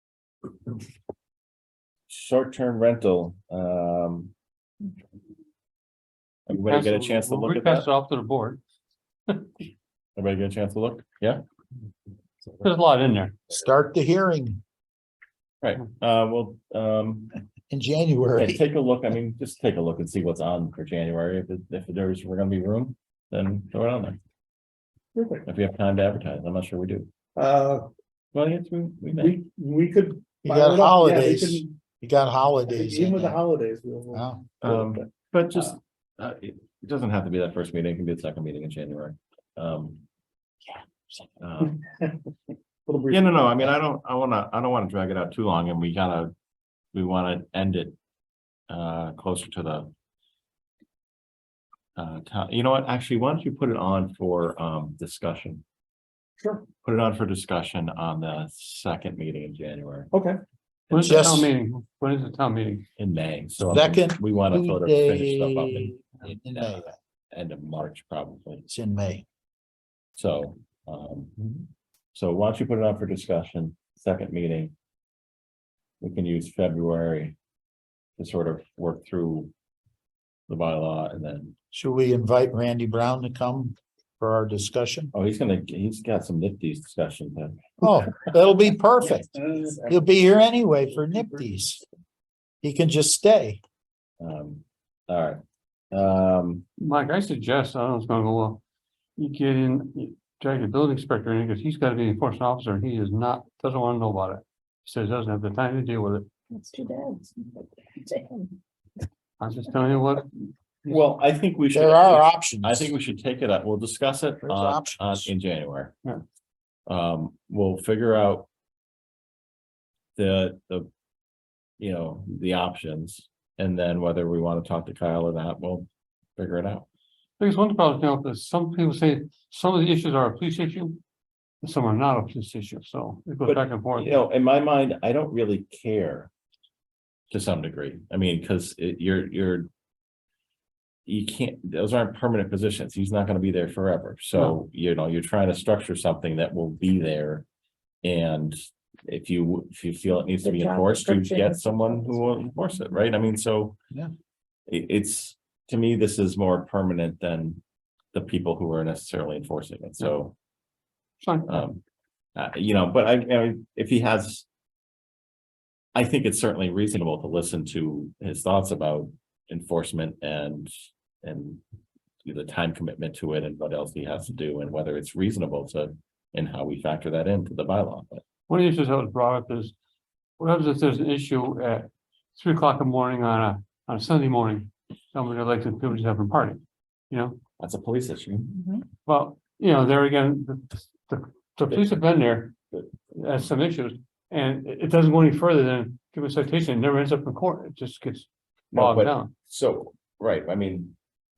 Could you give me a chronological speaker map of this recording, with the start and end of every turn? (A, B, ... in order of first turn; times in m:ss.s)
0:02.1-0:04.3 A
0:06.5-0:07.9 A
0:06.5-0:08.6 B
0:10.2-0:11.4 A
0:12.6-0:13.4 B
0:13.5-0:14.6 C
0:15.6-0:17.3 A
0:17.7-0:18.6 C
0:18.4-0:24.2 A
0:25.2-0:25.5 D
0:25.4-0:27.1 A
0:27.4-0:27.9 D
0:28.3-0:29.4 A
0:29.1-0:31.7 D
0:30.4-0:33.4 C
0:32.7-0:35.0 D
0:34.1-0:34.5 C
0:34.6-0:40.0 A
0:41.4-0:41.8 A
0:41.6-0:42.1 D
0:42.9-0:43.6 D
0:43.1-0:46.3 A
0:46.9-0:48.0 A
0:48.7-0:49.9 A
0:52.0-0:55.6 A
0:56.4-0:56.7 D
0:56.8-1:00.1 A
1:00.1-1:00.4 D
1:00.9-1:01.5 A
1:00.9-1:02.9 B
1:01.0-1:01.5 C
1:03.0-1:06.8 A
1:03.6-1:07.0 C
1:07.3-1:08.7 A
1:08.7-1:09.2 C
1:10.2-1:11.3 A
1:12.1-1:14.7 A
1:16.0-1:17.4 A
1:18.2-1:19.5 A
1:20.5-1:21.6 A
1:21.7-1:25.1 C
1:25.1-1:27.7 A
1:27.8-1:31.8 C
1:32.6-1:33.6 C
1:34.2-1:35.4 A
1:35.9-1:36.6 A
1:36.8-1:38.6 B
1:39.2-1:46.2 B
1:46.5-1:48.6 E
1:49.4-1:50.9 B
1:50.9-1:56.0 A
1:51.7-1:52.9 C
1:54.4-1:55.3 C
1:56.9-1:58.5 A
2:00.2-2:00.9 A
2:01.8-2:06.9 A
2:07.4-2:11.0 B
2:11.6-2:14.1 B
2:13.4-2:16.3 A
2:17.3-2:19.7 A
2:21.1-2:27.5 A
2:28.0-2:33.8 A
2:30.4-2:32.6 E
2:34.7-2:37.6 A
2:38.1-2:40.3 A
2:41.2-2:41.6 B
2:41.5-2:41.8 A
2:42.4-2:44.5 A
2:46.0-2:50.7 A
2:51.2-2:51.6 A
2:52.2-2:58.2 A
2:58.5-2:59.7 B
3:00.4-3:07.4 B
3:07.6-3:08.6 A
3:09.0-3:12.5 B
3:11.7-3:12.0 A
3:13.1-3:19.3 B
3:18.7-3:21.0 A